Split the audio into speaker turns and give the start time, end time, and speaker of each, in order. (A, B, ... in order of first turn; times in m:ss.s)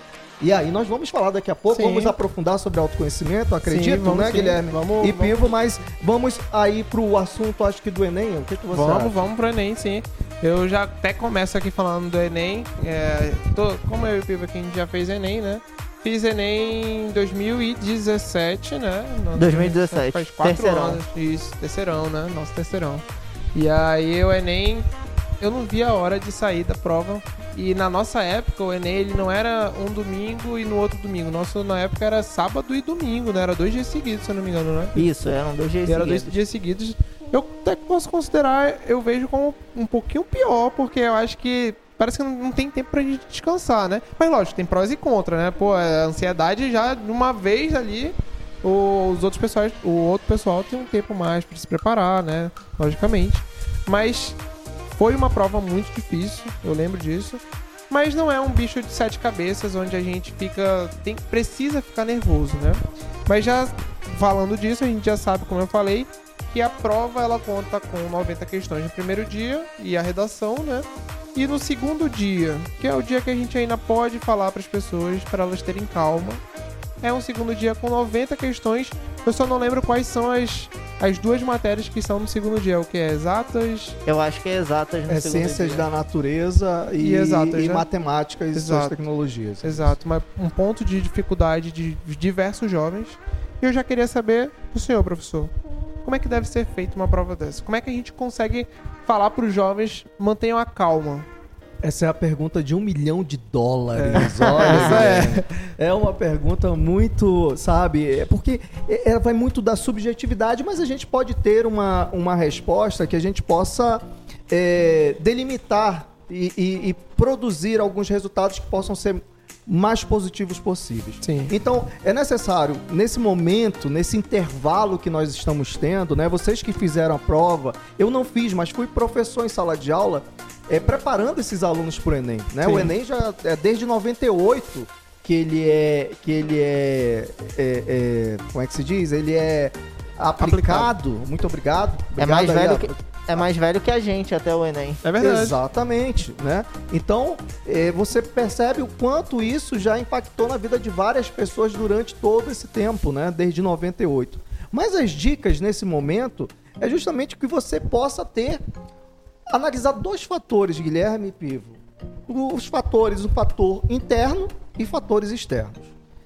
0:00.4-0:09.2 A
0:01.7-0:02.2 B
0:03.6-0:05.5 B
0:08.7-0:24.9 B
0:19.4-0:21.0 C
0:25.4-0:35.1 B
0:35.0-0:36.4 C
0:35.9-0:54.4 B
0:54.9-1:16.4 B
1:17.0-1:24.0 B
1:24.1-1:25.9 C
1:25.1-1:30.0 A
1:27.0-1:27.8 B
1:28.5-1:29.0 B
1:29.6-1:35.5 B
1:36.0-1:41.3 B
1:41.8-2:22.9 A
1:44.0-1:45.5 B
1:44.2-1:45.3 C
2:01.2-2:01.5 B
2:12.6-2:13.0 B
2:20.4-2:20.9 B
2:22.2-2:25.0 C
2:25.0-2:25.6 B
2:25.2-2:38.6 A
2:39.5-2:45.9 A